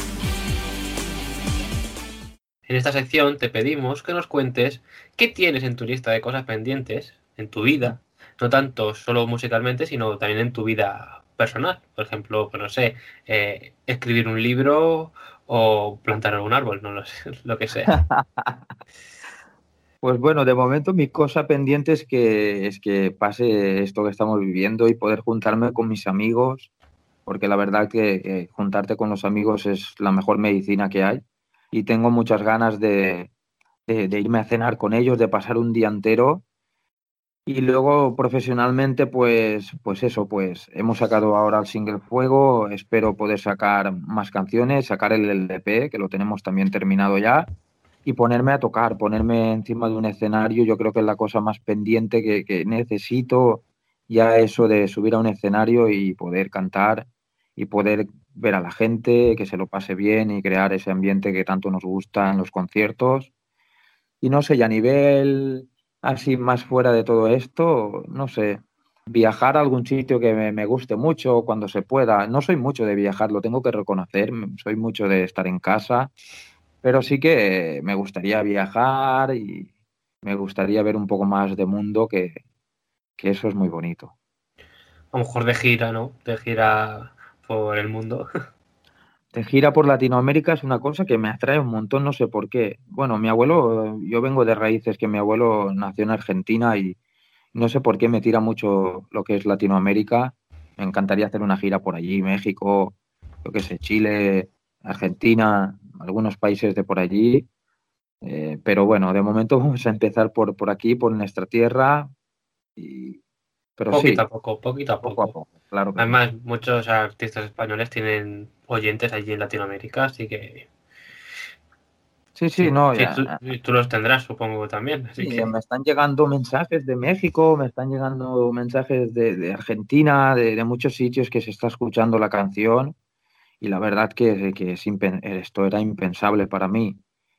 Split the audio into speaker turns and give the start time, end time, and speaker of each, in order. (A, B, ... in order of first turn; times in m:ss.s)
0:02.7-0:18.0 A
0:17.9-0:18.6 B
0:20.0-0:26.7 B
0:27.3-0:33.3 B
0:33.9-0:36.4 B
0:37.5-0:47.5 B
0:48.0-1:03.3 B
1:04.2-1:16.1 B
1:16.8-1:19.7 B
1:20.2-1:22.4 B
1:23.2-1:24.1 B
1:25.1-1:28.3 A
1:29.3-1:37.0 B
1:37.5-1:47.5 B
1:48.2-1:52.1 B
1:52.8-1:53.2 B
1:53.8-1:54.2 B
1:53.9-1:55.3 A
1:55.0-1:56.2 B
1:56.0-2:00.7 A
2:02.4-2:03.4 B
2:02.6-2:05.5 A
2:05.2-2:13.0 B
2:13.6-2:17.0 B